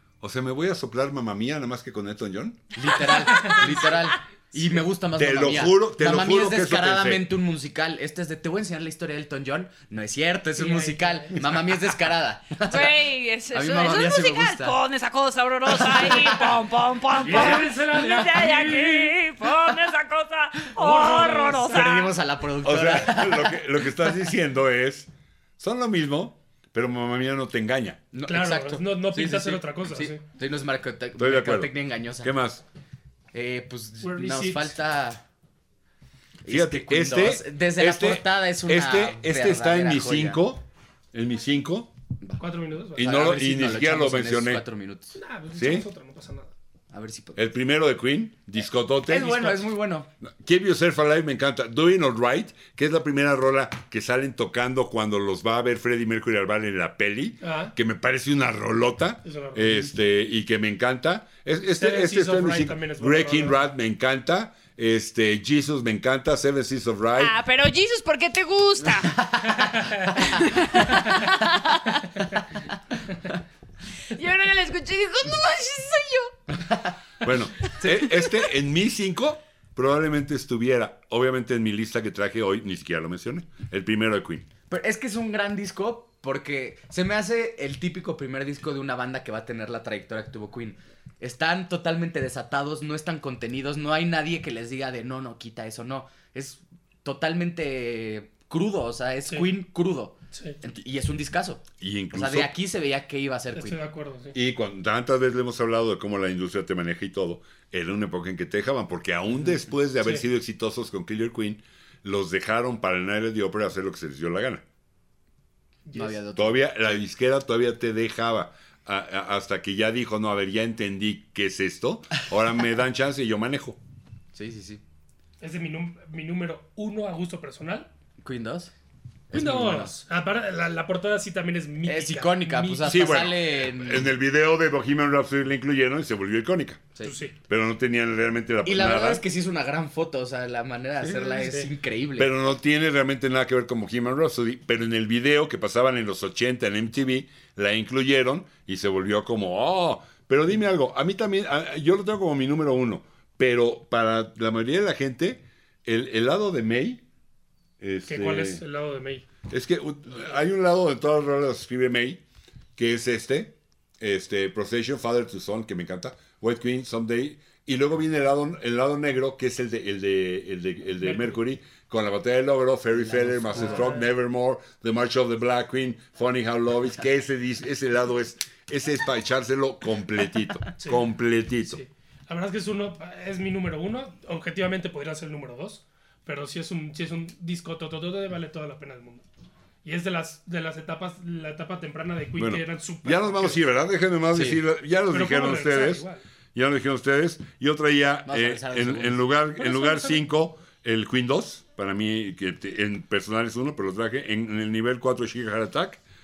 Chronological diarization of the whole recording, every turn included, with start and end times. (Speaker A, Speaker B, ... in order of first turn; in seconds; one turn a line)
Speaker A: 0.2-2.9
Speaker B: 2.8-14.8
Speaker C: 3.3-3.6
Speaker D: 3.4-3.7
Speaker A: 5.2-7.3
Speaker D: 10.6-11.4
Speaker C: 12.6-22.1
Speaker D: 17.2-19.7
Speaker B: 17.3-17.6
Speaker D: 20.7-21.9
Speaker B: 21.6-23.6
Speaker A: 22.6-28.0
Speaker B: 28.1-32.3
Speaker D: 28.3-30.2
Speaker A: 31.2-32.6
Speaker B: 33.3-35.2
Speaker D: 34.0-34.8
Speaker B: 36.4-40.4
Speaker A: 36.5-41.9
Speaker D: 42.4-43.2
Speaker B: 43.0-45.2
Speaker A: 43.0-44.6
Speaker D: 45.2-46.5
Speaker A: 45.5-45.9
Speaker B: 46.9-47.5
Speaker A: 47.4-49.6
Speaker B: 49.1-50.1
Speaker A: 50.2-67.3
Speaker D: 57.4-57.7
Speaker D: 59.2-59.7
Speaker D: 61.8-63.6
Speaker C: 67.2-72.3
Speaker B: 69.2-69.7
Speaker D: 69.7-70.0
Speaker C: 74.1-76.5
Speaker A: 77.2-84.5
Speaker B: 77.8-78.3
Speaker B: 84.7-103.8
Speaker D: 100.3-100.6
Speaker A: 101.8-102.5
Speaker D: 103.5-104.4
Speaker A: 104.3-114.6
Speaker D: 115.9-116.2
Speaker B: 115.9-116.6
Speaker A: 116.4-123.8
Speaker B: 124.3-124.8
Speaker D: 125.4-127.9
Speaker B: 128.2-128.7
Speaker B: 129.3-130.0
Speaker D: 129.3-133.1
Speaker B: 131.8-134.1
Speaker A: 132.8-136.8
Speaker D: 137.0-137.4
Speaker A: 137.5-139.2
Speaker B: 138.7-142.3
Speaker D: 141.1-141.7
Speaker A: 142.2-157.0
Speaker A: 157.8-158.6
Speaker D: 158.1-159.3
Speaker A: 159.5-162.2
Speaker A: 162.8-181.8
Speaker D: 171.0-171.4
Speaker B: 172.9-174.0
Speaker D: 173.6-174.1
Speaker D: 180.8-181.0
Speaker D: 181.7-189.2
Speaker D: 189.8-193.6
Speaker A: 192.4-206.0
Speaker B: 194.3-194.6
Speaker D: 195.1-196.2
Speaker B: 198.3-199.2
Speaker D: 199.6-200.2